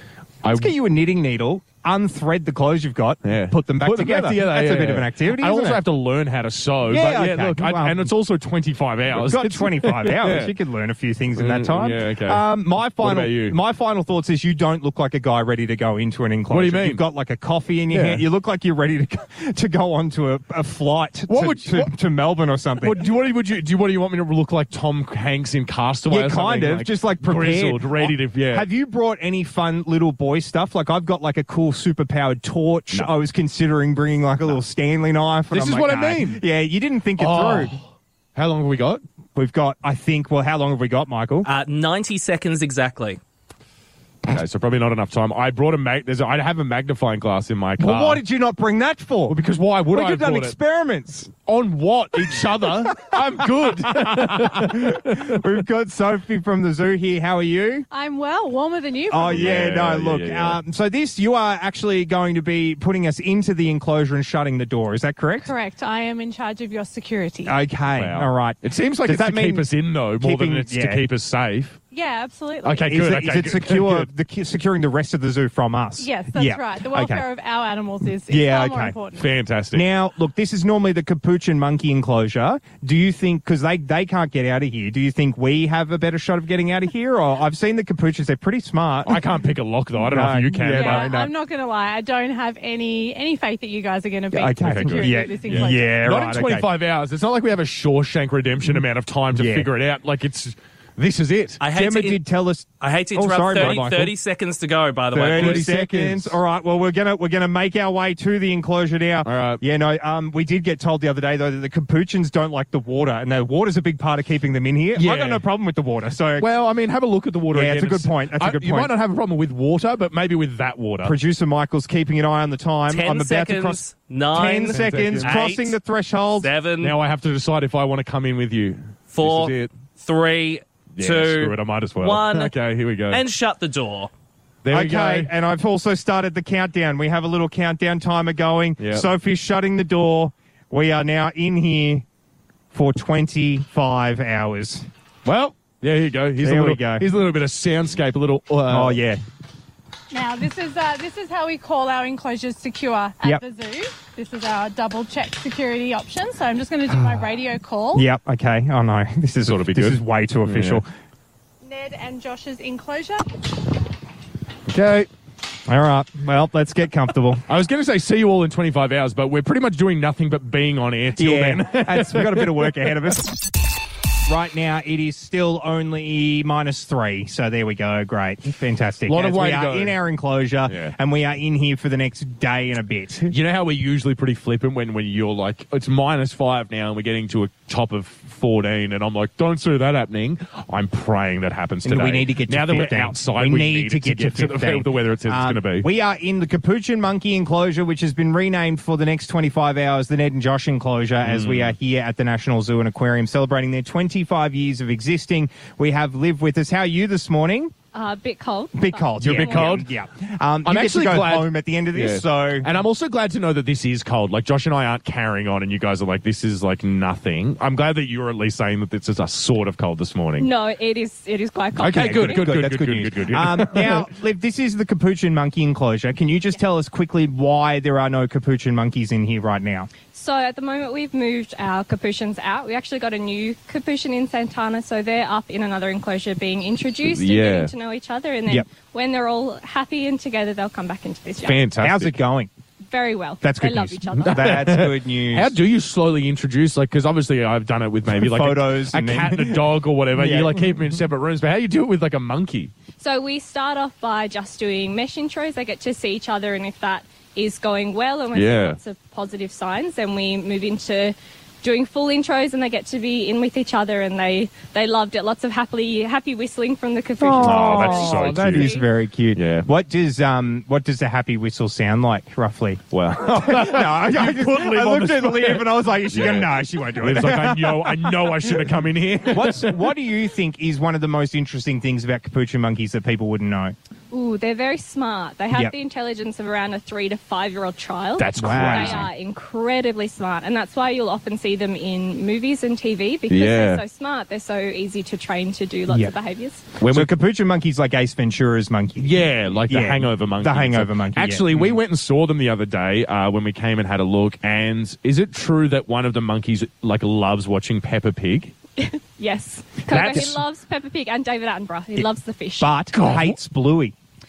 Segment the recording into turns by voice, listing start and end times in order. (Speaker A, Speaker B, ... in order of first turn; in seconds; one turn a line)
Speaker A: 0.4-0.7
Speaker B: 0.5-5.8
Speaker A: 3.2-10.5
Speaker B: 6.9-8.1
Speaker B: 9.2-23.0
Speaker A: 11.3-12.4
Speaker A: 13.0-13.6
Speaker A: 16.5-17.0
Speaker A: 17.9-18.2
Speaker A: 21.3-21.9
Speaker A: 22.8-28.7
Speaker B: 26.1-37.7
Speaker A: 35.5-36.4
Speaker A: 37.2-39.0
Speaker B: 39.3-41.5
Speaker C: 41.4-43.2
Speaker A: 44.2-48.2
Speaker B: 47.8-49.4
Speaker A: 49.3-50.5
Speaker B: 49.9-51.3
Speaker A: 51.3-55.4
Speaker B: 52.2-57.9
Speaker D: 57.9-59.5
Speaker B: 59.1-65.5
Speaker A: 59.2-60.6
Speaker D: 65.4-67.5
Speaker B: 67.4-71.0
Speaker A: 67.9-71.8
Speaker D: 71.9-72.9
Speaker A: 72.6-74.1
Speaker B: 72.8-77.2
Speaker D: 76.0-79.3
Speaker B: 78.3-79.0
Speaker A: 79.2-79.8
Speaker B: 79.7-89.2
Speaker A: 89.0-91.3
Speaker B: 90.0-91.2
Speaker D: 90.7-96.0
Speaker B: 94.3-96.7
Speaker A: 94.6-101.6
Speaker B: 99.3-99.7
Speaker C: 101.6-105.7
Speaker B: 101.6-104.1
Speaker A: 103.5-103.8
Speaker B: 105.1-116.5
Speaker A: 105.2-106.4
Speaker A: 109.2-109.6
Speaker A: 114.9-115.4
Speaker A: 116.4-121.2
Speaker B: 117.5-118.9
Speaker B: 121.0-126.5
Speaker C: 122.9-125.8
Speaker A: 124.3-125.4
Speaker C: 126.4-127.0
Speaker A: 126.8-129.7
Speaker C: 129.1-134.1
Speaker A: 131.0-133.2
Speaker A: 134.6-135.3
Speaker B: 134.7-142.1
Speaker A: 138.8-139.1
Speaker B: 142.7-144.9
Speaker A: 145.2-149.0
Speaker B: 146.4-147.1
Speaker B: 148.7-149.2
Speaker D: 150.1-158.0
Speaker B: 157.9-160.9
Speaker A: 159.4-160.8
Speaker D: 161.6-163.3
Speaker A: 164.7-165.1
Speaker B: 165.7-167.4
Speaker A: 167.5-173.1
Speaker B: 171.2-173.3
Speaker B: 174.3-183.3
Speaker A: 179.1-180.0
Speaker A: 180.7-180.9
Speaker A: 183.3-195.9
Speaker B: 191.8-207.7
Speaker A: 201.2-201.7
Speaker E: 207.9-209.8
Speaker B: 208.7-212.7
Speaker A: 209.2-209.9
Speaker A: 210.6-220.5
Speaker E: 220.4-222.5
Speaker A: 221.8-224.1
Speaker B: 221.9-229.9
Speaker E: 230.1-241.6
Speaker A: 237.0-237.7
Speaker A: 241.4-242.2
Speaker B: 241.8-242.5
Speaker E: 242.9-244.8
Speaker B: 243.4-245.5
Speaker A: 244.2-252.7
Speaker B: 248.1-250.9
Speaker E: 253.0-268.8
Speaker A: 258.3-258.8
Speaker B: 267.2-278.6
Speaker A: 267.4-268.8
Speaker A: 269.3-269.7
Speaker A: 272.9-279.8
Speaker B: 279.3-283.7
Speaker E: 284.1-296.6
Speaker A: 288.2-289.1
Speaker B: 288.4-289.1
Speaker A: 293.3-293.8
Speaker A: 296.8-297.1
Speaker B: 296.8-301.8
Speaker A: 299.0-308.5
Speaker E: 308.8-312.7
Speaker A: 309.9-310.4
Speaker B: 309.9-310.3
Speaker B: 312.6-313.9
Speaker A: 312.9-313.4